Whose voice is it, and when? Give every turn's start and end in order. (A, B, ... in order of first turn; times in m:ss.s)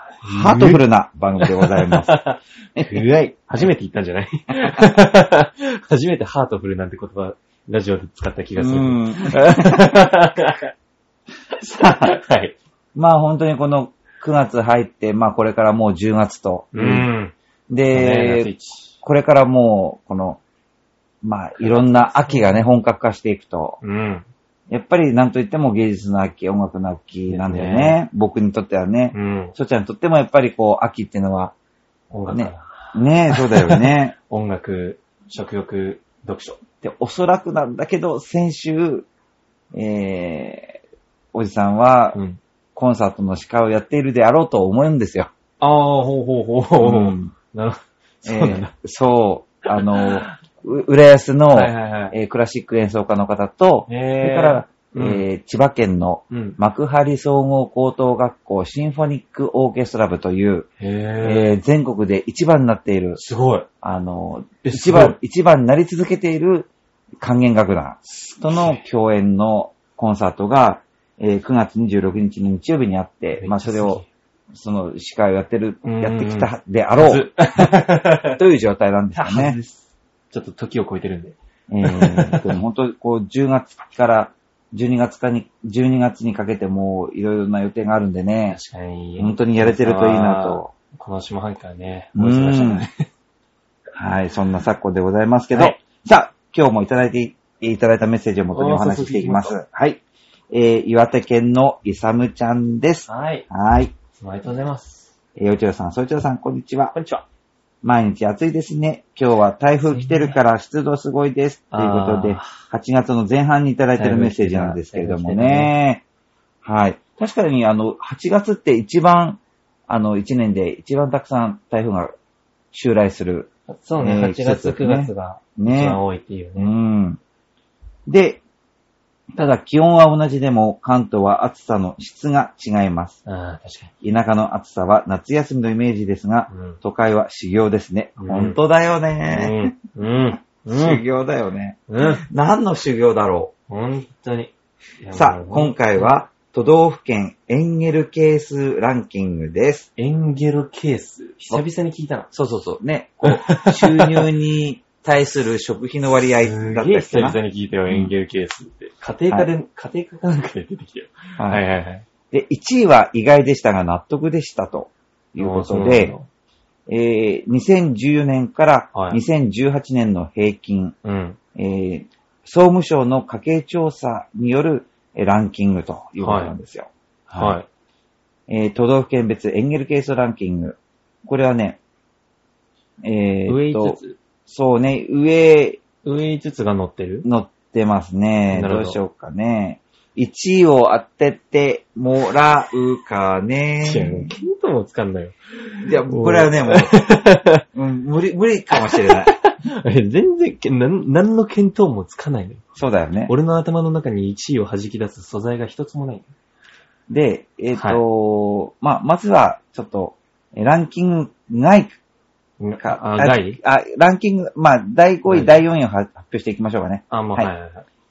0:00.2-0:00.8 A
0:00.2-0:02.1 B
0:01.4-0:10.7 A
0:02.8-0:03.3 B
0:08.6-0:09.9 B
0:11.6-0:12.2 B
0:11.8-0:12.5 A
0:12.9-0:17.1 B
0:16.7-0:17.3 A
0:17.7-0:18.5 B
0:17.9-0:18.9 A
0:19.0-0:20.4 B
0:21.2-0:23.8 B
0:21.6-0:22.6 A
0:23.8-0:24.3 A
0:24.7-0:31.5 B
0:27.3-0:28.0 A
0:29.1-0:29.6 A
0:32.1-0:36.6 A
0:32.3-0:34.1 B
0:36.8-0:39.1 B
0:39.7-0:40.8 B
0:41.3-0:42.2 B
0:42.1-0:42.4 A
0:42.7-0:45.3 B
0:45.6-0:48.7 A
0:46.8-0:47.3 B
0:48.2-1:00.7 B
0:49.7-0:50.3 A
0:51.5-0:52.2 A
0:53.9-0:55.2 A
0:56.3-0:56.6 A
1:00.8-1:01.6 A
1:01.2-1:03.2 B
1:03.2-1:03.7 A
1:03.8-1:06.7 B
1:04.6-1:05.2 A
1:07.2-1:19.7 B
1:08.1-1:08.8 A
1:13.4-1:14.0 A
1:15.8-1:18.4 A
1:19.1-1:19.6 A
1:20.3-1:22.5 A
1:21.7-1:28.6 B
1:28.5-1:32.9 A
1:29.2-1:30.7 B
1:32.1-1:32.8 B
1:33.9-1:44.0 B
1:35.5-1:35.8 A
1:38.5-1:39.6 A
1:43.1-1:43.5 A
1:44.1-1:45.1 A
1:45.4-1:46.9 B
1:46.9-1:47.2 A
1:47.8-1:56.0 B
1:49.9-1:50.4 A
1:51.7-1:52.5 A
1:53.9-1:55.7 A
1:56.6-2:02.1 B
2:02.7-2:06.0 B
2:03.7-2:06.7 A
2:06.6-2:07.2 B
2:08.1-2:08.4 B
2:09.3-2:13.2 B
2:13.2-2:13.9 A
2:14.0-2:19.7 B
2:16.5-2:16.8 A
2:18.2-2:18.6 A
2:19.3-2:21.0 A
2:20.6-2:23.5 B
2:21.9-2:22.2 A
2:23.7-2:26.1 A
2:25.1-2:29.9 B
2:30.0-2:32.3 A
2:32.3-2:38.1 B
2:33.2-2:34.3 A
2:36.4-2:42.0 A
2:41.4-2:41.6 B
2:42.3-2:46.1 B
2:45.4-2:46.3 A
2:46.9-2:51.0 B
2:48.9-2:49.2 A
2:51.0-2:51.4 A
2:51.5-2:57.6 B
2:56.2-2:56.6 A
2:57.3-2:57.6 A
2:58.5-3:01.8 B
3:03.0-3:05.8 B
3:03.5-3:04.2 A
3:06.0-3:07.2 A
3:07.2-3:14.3 B
3:08.5-3:09.0 A
3:13.8-3:15.3 A
3:15.8-3:17.0 B
3:16.1-3:17.6 A
3:17.7-3:19.3 B
3:18.7-3:22.6 A
3:22.8-3:23.3 B
3:23.3-3:26.3 A
3:27.1-3:32.0 B
3:27.8-3:28.0 A
3:32.6-3:33.6 A
3:32.8-3:37.5 B
3:35.2-3:35.6 A
3:37.1-3:37.8 A